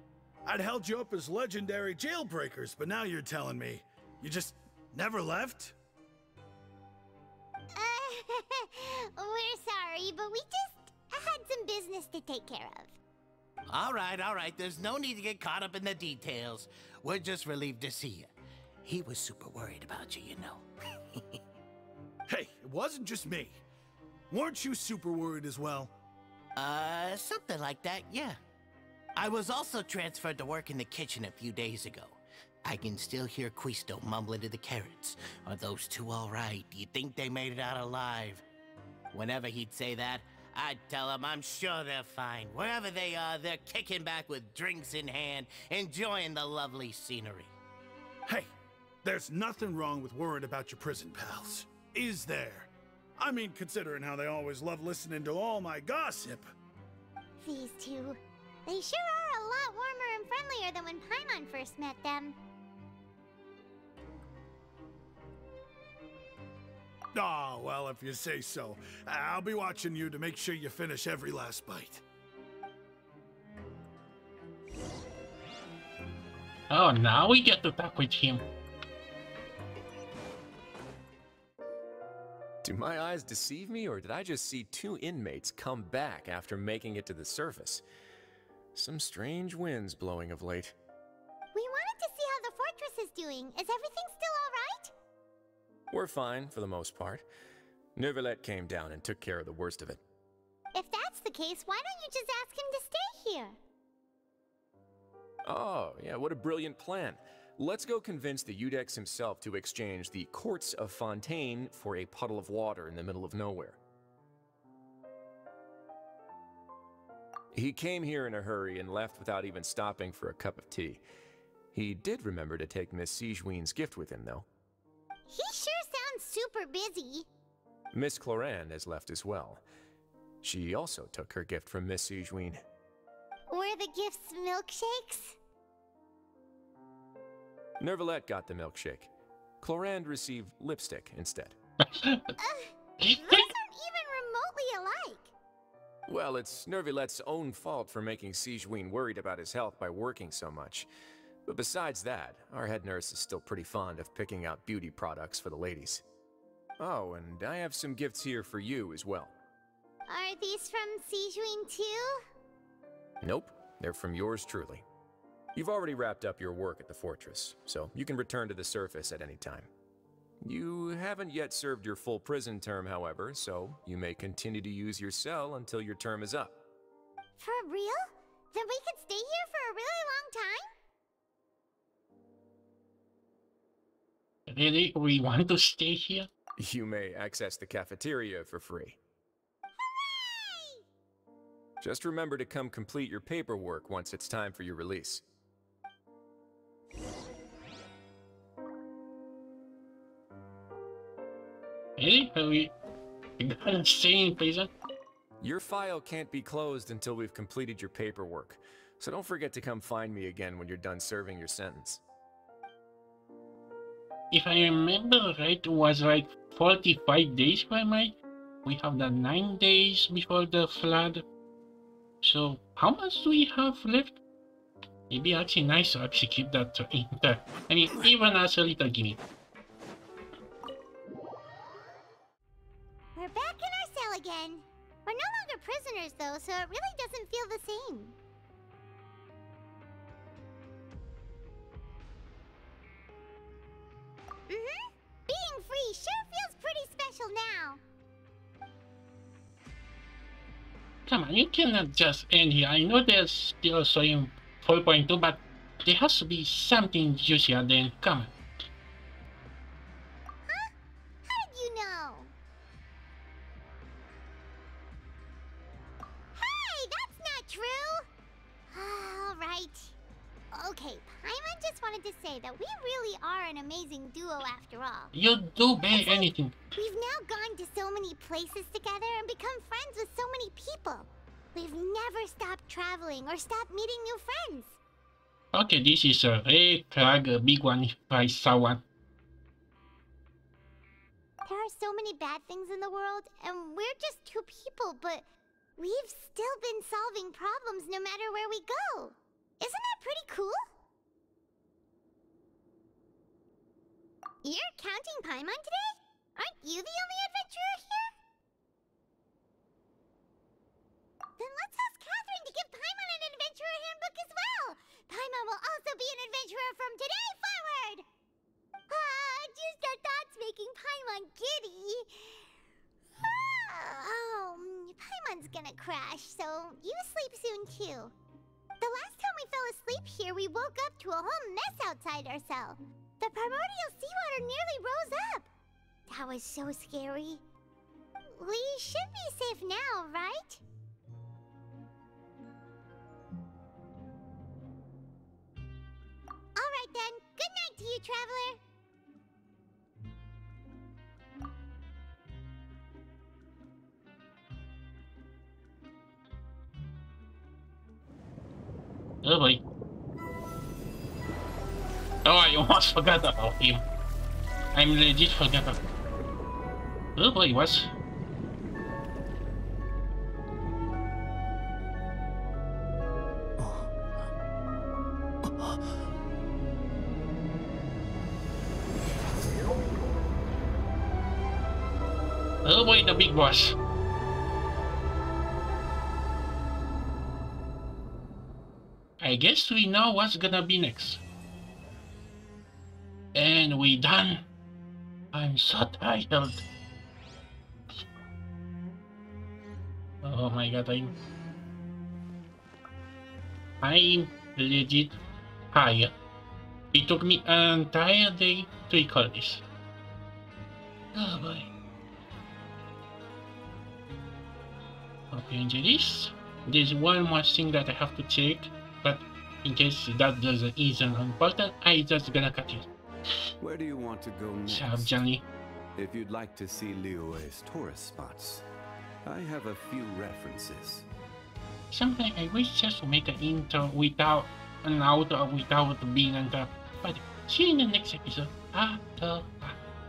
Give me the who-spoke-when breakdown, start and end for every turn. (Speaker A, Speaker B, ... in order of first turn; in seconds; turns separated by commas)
Speaker A: 0.4-5.8, Speaker B: 7.8-13.0, Speaker C: 13.7-18.3, Speaker C: 18.9-20.6, Speaker A: 22.3-23.6, Speaker A: 24.3-25.9, Speaker C: 26.6-28.4, Speaker C: 29.1-38.4, Speaker C: 39.1-47.5, Speaker A: 49.0-56.4, Speaker B: 57.4-62.4, Speaker A: 67.1-72.0, Speaker D: 76.7-78.4, Speaker E: 82.6-87.8, Speaker E: 88.8-90.8, Speaker B: 91.5-94.9, Speaker E: 95.9-97.2, Speaker E: 98.0-100.0, Speaker B: 100.7-103.6, Speaker E: 105.5-113.8, Speaker E: 117.5-121.0, Speaker E: 121.7-124.5, Speaker B: 125.3-127.3, Speaker E: 127.9-129.6, Speaker E: 130.4-132.6, Speaker B: 133.5-135.4, Speaker E: 137.8-139.1, Speaker E: 139.6-141.6, Speaker D: 141.8-142.3, Speaker B: 142.4-145.3, Speaker D: 143.0-143.5, Speaker E: 146.1-150.9, Speaker E: 151.4-156.0, Speaker E: 156.8-159.3, Speaker B: 160.1-162.2, Speaker E: 163.2-164.8, Speaker E: 165.6-169.7, Speaker E: 170.4-176.6, Speaker B: 177.4-180.7, Speaker D: 184.5-186.3, Speaker E: 186.6-189.0, Speaker B: 189.8-190.8, Speaker E: 191.8-195.2, Speaker D: 202.0-202.7, Speaker D: 203.4-204.7, Speaker E: 205.4-212.0, Speaker D: 214.3-221.2, Speaker D: 222.2-224.2, Speaker D: 225.1-229.2, Speaker B: 233.2-238.1, Speaker B: 244.5-247.8, Speaker D: 251.1-258.3, Speaker B: 260.4-260.7, Speaker B: 261.2-262.3, Speaker B: 266.3-268.1, Speaker B: 268.7-269.9, Speaker B: 270.5-275.1, Speaker D: 275.1-276.6, Speaker B: 275.9-284.8, Speaker D: 285.5-288.8, Speaker B: 291.4-295.2, Speaker B: 295.8-300.6, Speaker B: 304.4-308.1, Speaker B: 311.4-318.1, Speaker B: 318.9-322.4, Speaker B: 323.2-328.1, Speaker B: 328.8-335.5, Speaker B: 336.1-337.4, Speaker B: 338.3-340.6, Speaker B: 346.6-348.6, Speaker D: 359.2-359.6, Speaker D: 362.2-363.8, Speaker D: 364.7-365.8, Speaker D: 367.1-367.9, Speaker C: 373.6-373.9, Speaker D: 382.6-383.8, Speaker D: 389.2-391.2, Speaker D: 393.3-394.4, Speaker D: 395.3-396.6, Speaker D: 400.2-401.1, Speaker D: 403.8-405.2, Speaker D: 405.7-406.1, Speaker D: 406.9-409.6, Speaker D: 411.1-411.7, Speaker D: 415.3-422.9, Speaker F: 423.6-425.2, Speaker D: 424.7-425.4, Speaker F: 425.9-428.6, Speaker F: 429.2-431.1, Speaker D: 431.9-439.8